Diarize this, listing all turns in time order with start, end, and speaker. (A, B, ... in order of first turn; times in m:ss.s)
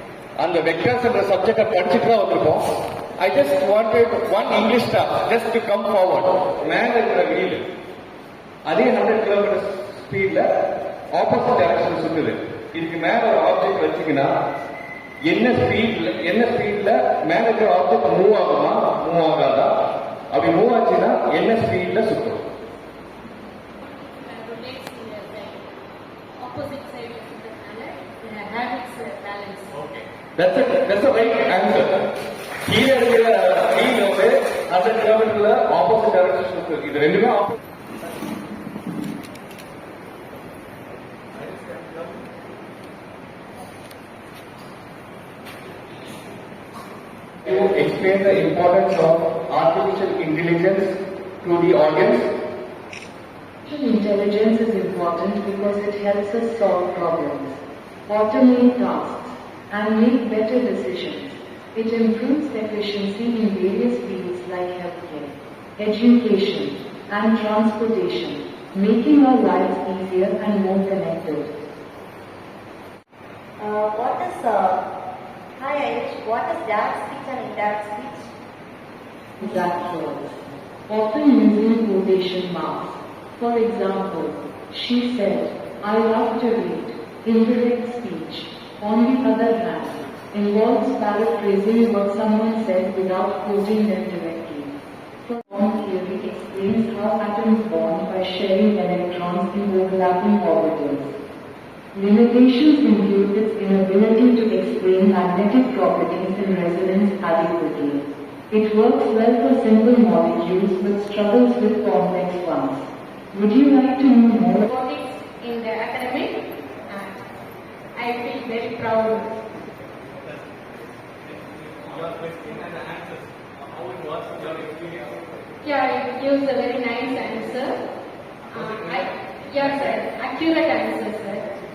0:00.4-0:07.6 A
0:08.7-0:10.4 A
0:11.1-0:14.3 A
0:15.3-0:19.7 A
0:20.3-0:22.4 A
0:23.3-0:25.7 B
0:26.4-0:29.7 B
0:30.4-0:32.0 A
0:32.6-0:37.5 A
0:41.4-0:42.1 C
0:47.4-0:52.3 A
0:53.7-1:11.5 D
1:13.6-1:14.8 E
1:15.6-1:18.3 E
1:19.4-1:41.1 D
1:41.9-1:54.6 D
1:54.7-1:57.2 B
1:57.9-1:59.3 B
2:00.1-2:05.4 C
2:05.6-2:07.8 B
2:08.5-2:11.4 B
2:08.5-2:08.8 C